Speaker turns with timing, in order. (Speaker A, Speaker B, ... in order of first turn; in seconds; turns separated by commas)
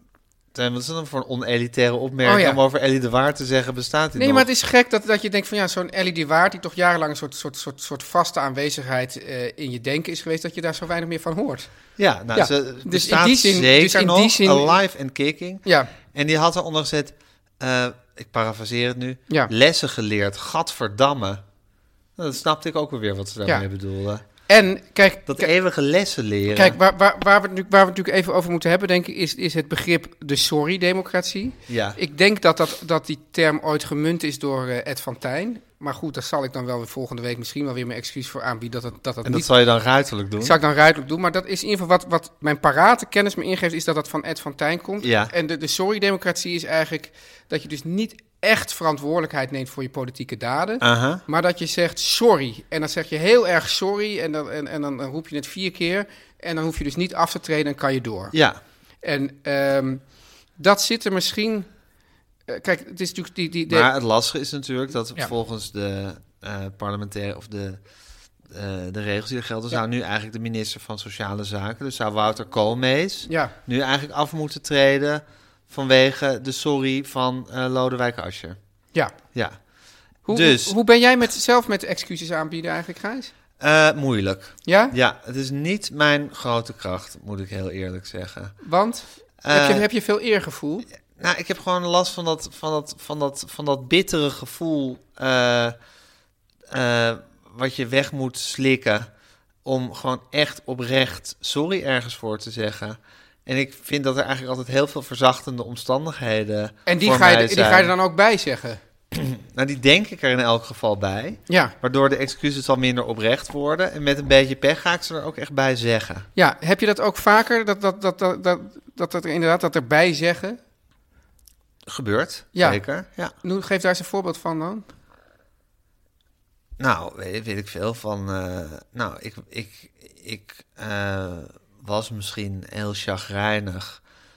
Speaker A: 0.5-4.5, Speaker B: 2.2-2.6, Speaker B: 4.2-11.7, Speaker A: 12.0-21.4, Speaker B: 12.3-14.8, Speaker B: 15.6-15.9, Speaker A: 22.2-24.2, Speaker B: 24.5-25.5, Speaker A: 25.3-26.8, Speaker B: 26.5-39.5, Speaker A: 31.7-32.0, Speaker A: 39.2-40.6, Speaker B: 40.4-58.3, Speaker A: 45.0-45.3, Speaker A: 50.8-51.2, Speaker A: 58.3-58.6, Speaker B: 59.0-60.0, Speaker B: 60.6-61.7, Speaker B: 62.5-63.9, Speaker A: 63.7-67.8, Speaker A: 68.5-78.6, Speaker B: 73.3-73.5, Speaker B: 80.2-83.3, Speaker A: 80.3-80.8, Speaker A: 83.6-88.5, Speaker B: 84.7-84.9, Speaker B: 88.6-90.9, Speaker A: 89.4-89.9, Speaker A: 91.2-95.8, Speaker A: 96.7-99.1, Speaker A: 99.6-107.9, Speaker B: 106.9-108.8, Speaker A: 109.1-116.3, Speaker B: 111.5-111.7, Speaker B: 116.4-120.6, Speaker A: 121.9-123.3, Speaker B: 122.5-122.8, Speaker B: 123.4-124.8, Speaker A: 126.8-134.0